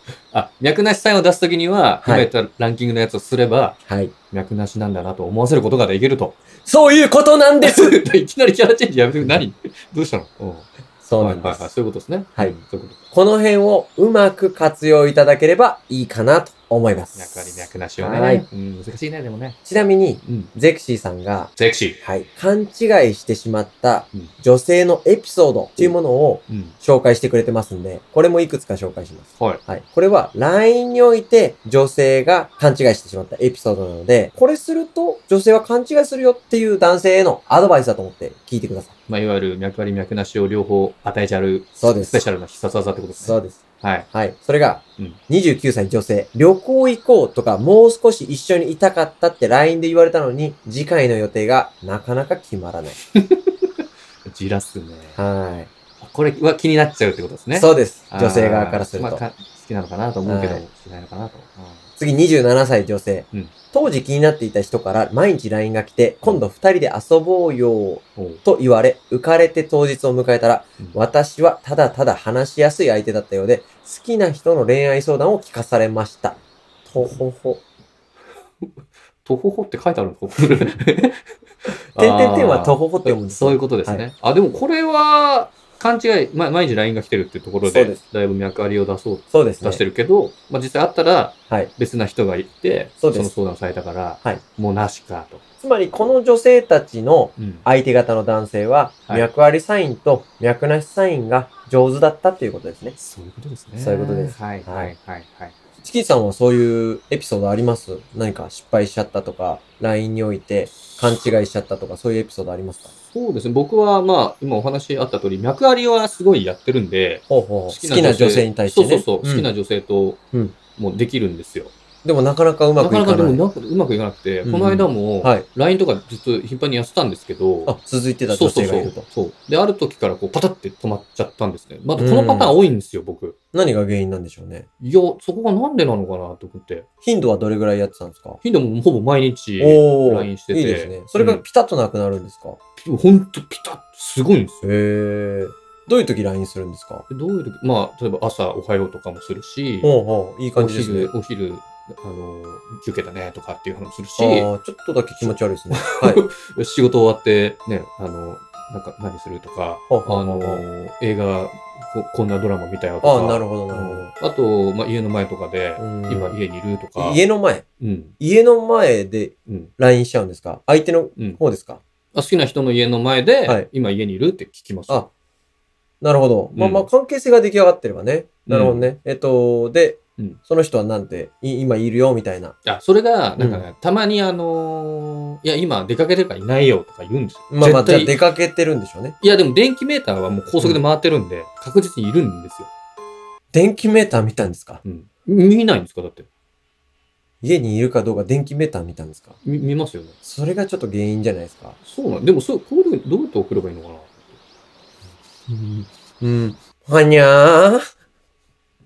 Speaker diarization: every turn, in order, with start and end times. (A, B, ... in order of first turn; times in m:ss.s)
0:00.3-0:03.8 A
0:02.0-0:02.3 B
0:03.9-0:04.1 B
0:04.3-0:06.4 A
0:06.6-0:08.0 B
0:07.6-0:10.7 A
0:11.0-0:11.7 B
0:11.2-0:13.0 A
0:13.1-0:18.4 B
0:17.1-0:19.6 A
0:19.6-0:38.9 B
0:20.2-0:20.5 A
0:21.6-0:22.0 A
0:26.5-0:26.8 A
0:39.1-0:44.1 A
0:41.8-0:42.2 B
0:43.2-0:43.6 B
0:44.1-0:53.0 B
0:53.1-0:53.7 A
0:54.2-0:55.2 A
0:55.2-0:55.7 B
0:56.0-1:01.8 A
0:57.6-0:59.2 B
1:00.2-1:00.6 B
1:02.0-1:17.6 B
1:08.2-1:08.4 A
1:19.2-1:21.2 A
1:21.9-1:35.4 A
1:22.0-1:24.0 B
1:27.6-1:28.0 B
1:29.3-1:29.8 B
1:33.0-1:33.3 B
1:35.6-1:43.0 B
1:37.4-1:37.7 A
1:43.0-1:45.6 A
1:43.8-1:44.9 B
1:45.8-1:52.9 B
1:50.9-1:51.3 A
1:53.1-2:00.2 A
1:57.3-1:59.5 B
2:00.8-2:01.7 A
2:02.0-2:03.4 B
2:02.8-2:07.7 A
2:04.4-2:05.4 B
2:07.7-2:09.1 B
2:08.3-2:13.4 A
2:12.0-2:12.6 B
2:13.5-2:14.7 B
2:14.8-2:16.8 A
2:17.0-2:18.4 B
2:18.4-2:21.4 A
2:19.6-2:22.6 B
2:22.8-2:24.7 A
2:24.6-2:27.0 B
2:27.1-2:29.9 A
2:29.8-2:31.1 B
2:30.6-2:34.5 A
2:34.2-2:36.2 B
2:35.2-2:47.2 A
2:39.9-2:40.6 B
2:43.0-2:44.1 B
2:45.8-2:46.4 B
2:47.0-2:47.6 B
2:47.8-2:48.1 A
2:48.2-2:51.8 B
2:49.5-2:49.7 A
2:52.1-2:55.1 A
2:56.0-3:02.6 B
2:56.6-2:56.9 A
2:58.5-2:58.9 A
3:02.6-3:08.2 A
3:03.4-3:03.6 B
3:07.5-3:09.2 B
3:09.2-3:12.7 A
3:13.5-3:14.8 B
3:14.8-3:16.3 A
3:17.4-3:19.4 B
3:19.4-3:20.2 A
3:20.2-3:21.8 B
3:21.8-3:24.2 A
3:25.5-3:27.8 B